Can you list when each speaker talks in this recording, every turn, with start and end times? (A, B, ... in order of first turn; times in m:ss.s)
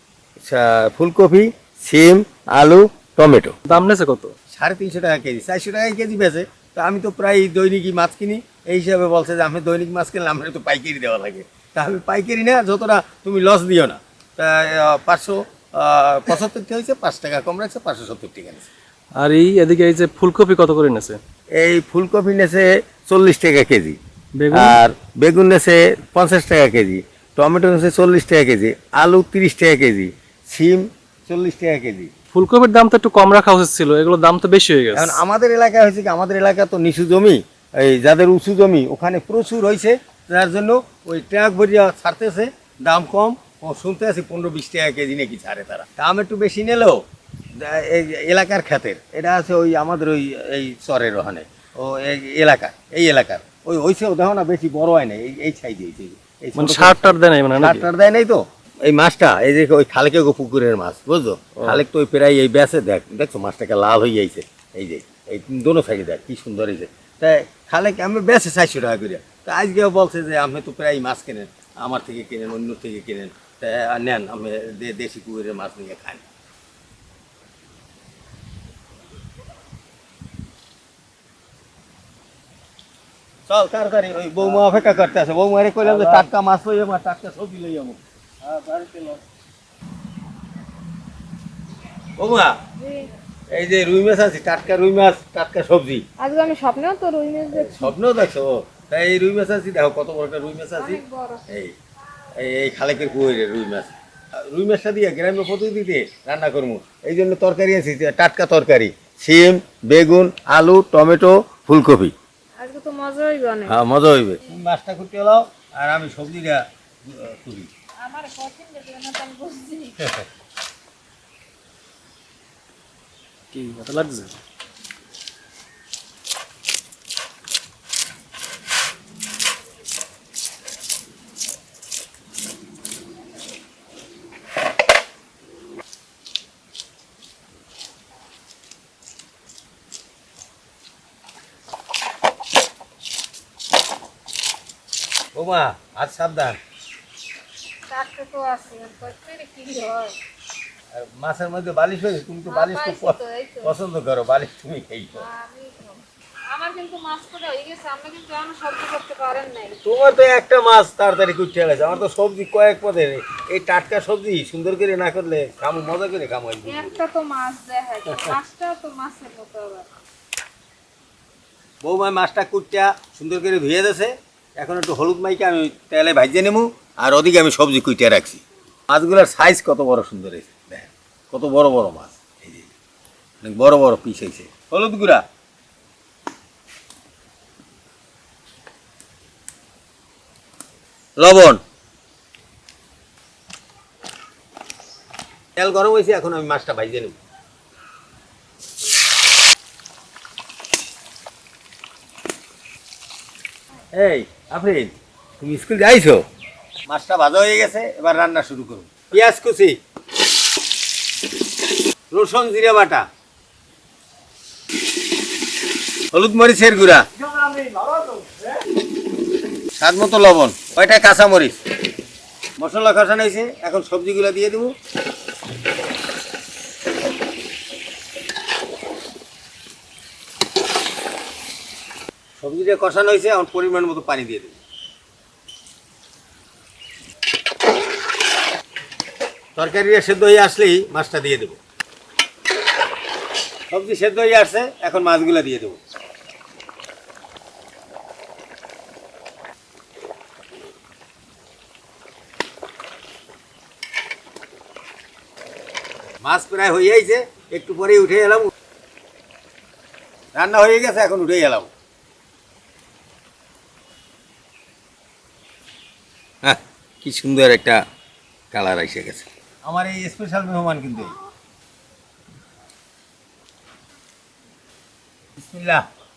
0:00.4-0:03.7 A
0:03.7-0:04.3 B
0:04.5-0:18.7 A
0:19.2-0:21.2 B
0:21.6-0:24.0 A
0:24.4-0:24.8 B
0:24.5-0:32.1 A
0:32.3-0:35.2 B
0:34.9-0:47.0 A
0:47.5-1:16.2 A
0:56.5-0:57.9 B
1:23.5-1:29.2 A
1:32.2-1:32.6 A
1:32.8-1:33.1 C
1:33.5-1:36.0 A
1:36.2-1:37.9 C
1:37.5-1:41.7 A
1:40.8-1:41.4 C
1:42.4-1:43.9 A
1:44.4-1:52.1 A
1:52.6-1:53.8 C
1:53.7-1:57.7 A
1:58.0-2:00.0 C
2:00.0-2:00.2 A
2:03.5-2:04.4 B
2:25.3-2:26.6 A
2:27.9-2:30.1 C
2:30.9-2:35.2 A
2:32.5-2:33.7 C
2:35.2-2:39.8 C
2:39.8-2:47.0 A
2:46.6-2:49.9 C
2:51.8-3:02.7 A
3:03.4-3:05.2 A
3:11.2-3:11.6 A
3:15.6-3:17.2 A
3:23.9-3:26.2 A
3:26.9-3:29.8 A
3:32.1-3:33.0 A
3:36.1-3:37.0 A
3:39.8-3:41.6 A
3:42.6-3:44.7 A
3:52.4-3:54.5 A
3:59.6-4:01.6 A
4:03.7-4:05.8 A
4:16.2-4:18.5 A
4:20.3-4:21.7 A
4:26.4-4:27.8 A
4:28.5-4:31.1 A
4:35.4-4:35.8 A